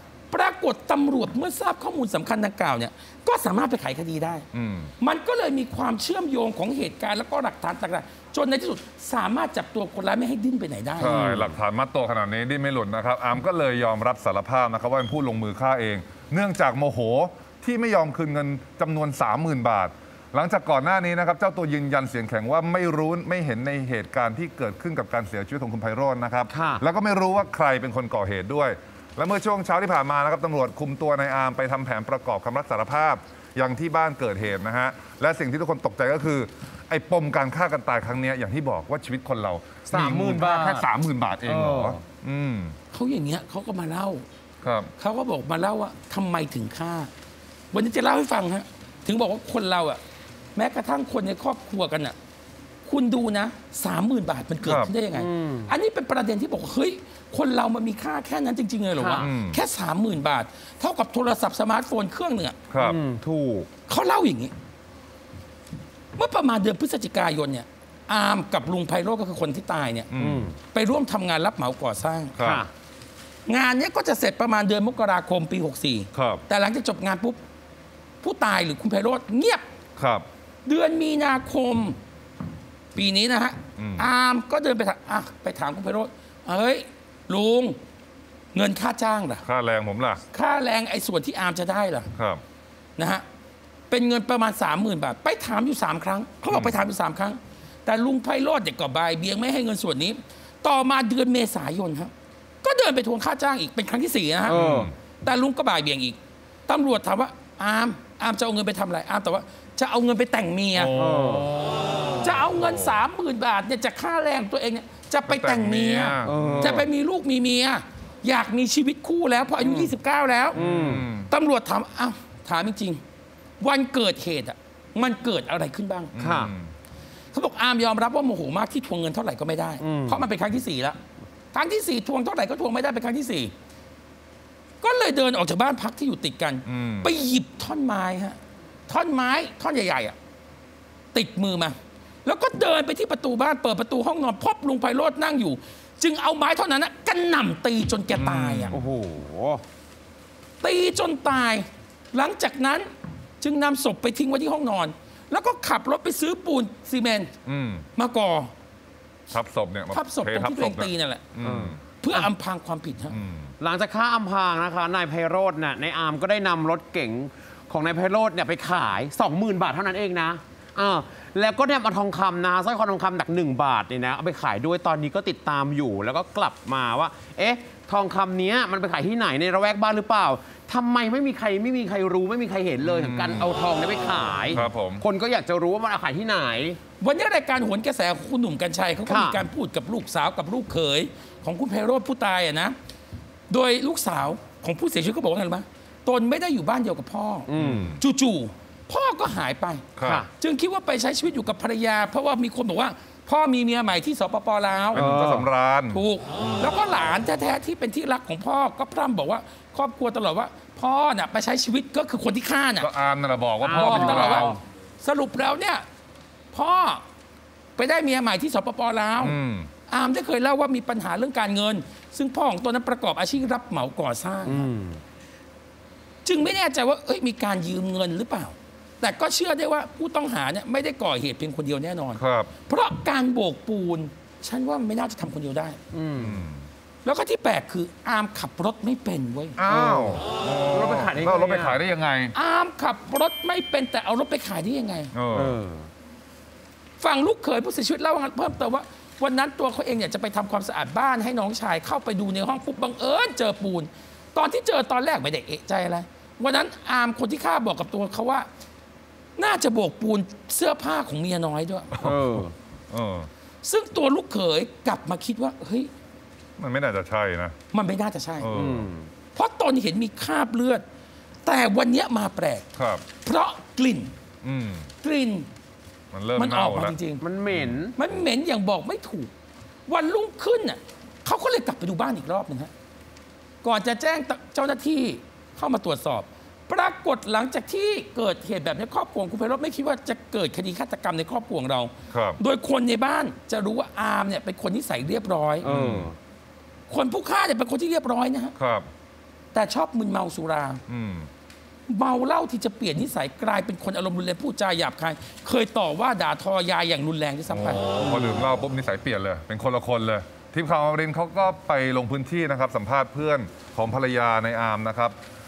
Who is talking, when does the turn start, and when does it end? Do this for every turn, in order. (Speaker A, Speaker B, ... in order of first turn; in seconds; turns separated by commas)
Speaker A: 0.3-4.5, Speaker B: 4.5-4.9, Speaker A: 5.0-11.3, Speaker B: 11.0-42.8, Speaker C: 11.0-11.6, Speaker C: 26.5-26.8, Speaker C: 39.9-40.9, Speaker C: 41.4-42.0, Speaker A: 42.9-44.2, Speaker B: 44.6-44.9, Speaker A: 45.0-47.1, Speaker A: 47.7-50.0, Speaker A: 50.6-52.2, Speaker A: 52.9-62.6, Speaker B: 54.6-54.9, Speaker C: 55.1-55.7, Speaker C: 59.0-59.3, Speaker B: 59.2-59.6, Speaker B: 62.7-63.0, Speaker C: 62.8-63.7, Speaker A: 63.9-64.5, Speaker A: 66.2-70.1, Speaker B: 70.1-70.5, Speaker C: 70.2-70.5, Speaker A: 70.7-72.4, Speaker B: 72.4-72.6, Speaker C: 72.4-72.7, Speaker A: 73.5-77.4, Speaker B: 76.1-76.4, Speaker A: 78.2-79.6, Speaker B: 80.0-80.3, Speaker A: 80.7-82.0, Speaker A: 83.0-87.8, Speaker B: 83.8-84.1, Speaker A: 88.5-89.5, Speaker B: 89.4-90.2, Speaker A: 90.3-92.1, Speaker B: 92.2-92.4, Speaker A: 93.0-93.2, Speaker A: 93.9-102.1, Speaker B: 96.5-96.8, Speaker A: 102.6-104.6, Speaker C: 104.5-104.9, Speaker B: 104.5-104.9, Speaker A: 105.2-110.9, Speaker B: 110.8-113.0, Speaker C: 110.9-111.5, Speaker A: 112.2-120.6, Speaker B: 115.3-116.9, Speaker C: 116.2-116.9, Speaker C: 119.6-119.9, Speaker C: 120.5-121.1, Speaker B: 120.5-121.3, Speaker A: 121.3-123.0, Speaker A: 123.6-126.1, Speaker B: 126.1-126.7, Speaker C: 126.2-126.5, Speaker A: 127.3-131.0, Speaker C: 129.8-130.3, Speaker A: 131.5-133.5, Speaker A: 134.8-140.2, Speaker B: 136.7-137.1, Speaker A: 141.1-148.8, Speaker B: 148.1-148.8, Speaker C: 148.7-149.6, Speaker A: 150.6-157.3, Speaker B: 157.4-157.9, Speaker A: 158.0-158.5, Speaker B: 159.3-161.8, Speaker A: 159.9-161.3, Speaker C: 161.4-162.3, Speaker A: 162.0-163.2, Speaker B: 163.1-163.5, Speaker C: 163.6-186.8, Speaker B: 182.8-183.5, Speaker B: 184.5-185.1, Speaker A: 187.0-192.8, Speaker C: 189.1-189.4, Speaker A: 193.5-205.1, Speaker C: 197.5-198.0, Speaker B: 197.6-198.0, Speaker B: 200.0-200.2, Speaker C: 200.0-200.3, Speaker C: 204.9-205.5, Speaker B: 204.9-206.0, Speaker A: 205.9-212.9, Speaker B: 212.8-214.6, Speaker C: 213.6-214.6, Speaker A: 213.7-215.9, Speaker A: 216.5-217.0, Speaker A: 217.8-224.7, Speaker B: 219.2-219.7, Speaker C: 224.4-225.0, Speaker A: 226.2-235.8, Speaker B: 232.2-232.5, Speaker C: 235.9-236.4, Speaker B: 236.2-236.7, Speaker A: 237.0-239.6, Speaker B: 239.6-242.3, Speaker C: 239.7-241.8, Speaker A: 242.3-245.1, Speaker B: 245.1-245.6, Speaker C: 245.3-245.9, Speaker A: 247.0-258.5, Speaker A: 259.4-261.9, Speaker B: 261.9-263.3, Speaker C: 262.0-262.5, Speaker A: 263.6-265.9, Speaker B: 266.6-267.6, Speaker A: 267.7-268.5, Speaker B: 268.4-268.9, Speaker C: 268.5-269.1, Speaker A: 269.3-270.8, Speaker A: 271.4-274.1, Speaker B: 272.8-273.1, Speaker B: 274.4-274.9, Speaker A: 275.0-275.5, Speaker B: 276.1-277.0, Speaker A: 276.4-277.2, Speaker C: 277.2-278.0, Speaker B: 277.5-277.8, Speaker A: 278.0-279.3, Speaker A: 279.9-282.7, Speaker A: 283.6-295.7, Speaker B: 292.1-292.4, Speaker C: 295.6-296.2, Speaker B: 295.6-296.1, Speaker A: 296.9-298.5, Speaker B: 298.6-298.9, Speaker A: 299.5-300.8, Speaker B: 300.9-301.3, Speaker A: 301.9-307.9, Speaker B: 307.5-315.2